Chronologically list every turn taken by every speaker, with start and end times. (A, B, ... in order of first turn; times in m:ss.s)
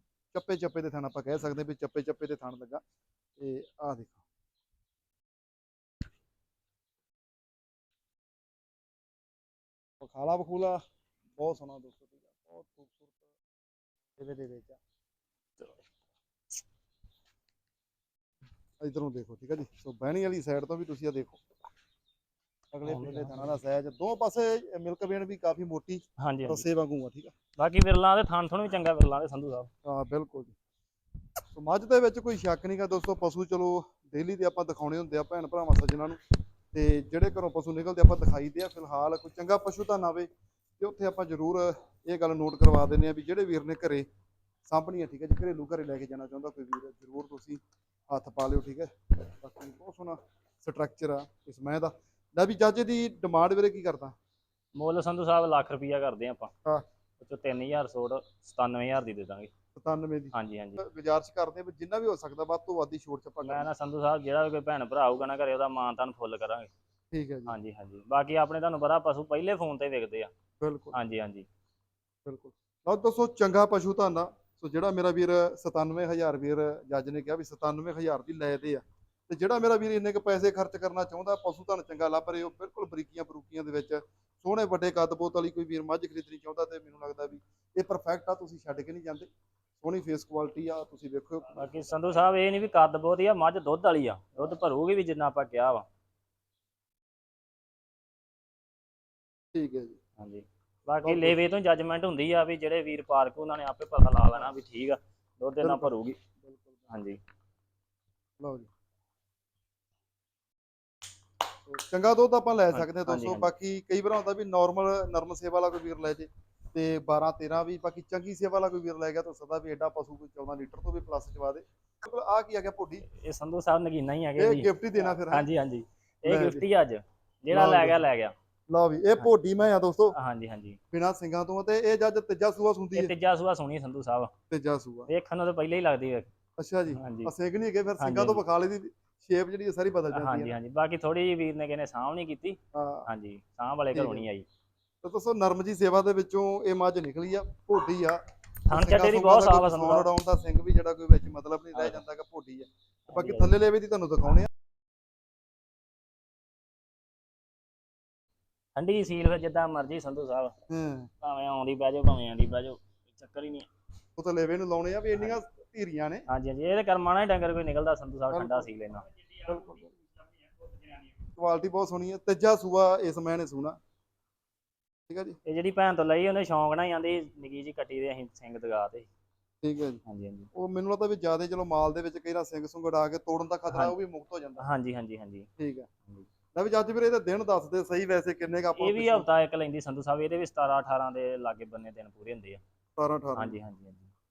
0:00.3-0:02.8 A
0:03.4-0:04.2 A
0:10.0-0:10.8 A
0:11.4-0:13.1 A
0:14.2-0:14.8 A
0:18.8-0:21.4 A
0:22.7-0:27.3 A
0:22.8-0:23.6 B
0:26.2-0:26.6 B
0:27.6-0:29.7 B
0:29.8-0:30.5 A
0:31.5-0:36.2 A
0:36.7-0:44.1 A
0:44.6-0:54.1 A
0:54.7-0:56.5 B
0:57.2-0:59.5 B
0:59.7-1:03.7 A
1:00.3-1:00.8 B
1:03.4-1:06.7 B
1:07.1-1:07.5 A
1:07.5-1:10.3 B
1:10.6-1:11.0 A
1:10.9-1:11.4 B
1:12.2-1:29.3 A
1:29.8-1:31.7 A
1:31.5-1:35.8 B
1:39.5-1:40.0 A
1:40.2-1:46.2 B
1:41.0-1:41.4 A
1:45.6-1:46.8 A
1:46.9-1:47.2 B
1:48.4-1:48.7 A
1:51.7-2:03.1 A
1:52.7-1:53.5 B
2:03.1-2:08.3 B
2:04.4-2:05.4 A
2:06.2-2:06.6 A
2:07.5-2:08.0 A
2:08.7-2:10.1 A
2:10.1-2:10.8 B
2:10.9-2:13.1 A
2:12.9-2:14.3 B
2:14.5-2:15.1 A
2:15.1-2:16.3 B
2:16.6-2:20.6 A
2:16.9-2:17.3 B
2:18.0-2:18.4 B
2:20.1-2:24.4 B
2:22.7-2:23.1 A
2:23.9-2:24.3 A
2:25.0-2:34.5 A
2:28.7-2:30.1 B
2:31.7-2:32.0 B
2:33.1-2:33.5 B
2:38.8-2:40.5 B
2:40.7-2:41.1 A
2:41.2-2:43.7 B
2:44.2-2:46.2 A
2:46.3-2:49.1 B
2:48.3-2:48.7 A
2:49.4-2:49.9 A
2:51.3-2:53.8 A
2:55.1-2:55.4 A
2:55.4-2:59.1 B
2:59.6-3:00.0 A
3:00.0-3:00.5 B
3:00.5-3:04.7 A
3:04.6-3:05.5 B
3:05.6-3:05.9 A
3:06.5-3:09.3 A
3:08.8-3:12.6 B
3:13.0-3:13.6 A
3:13.4-3:14.1 B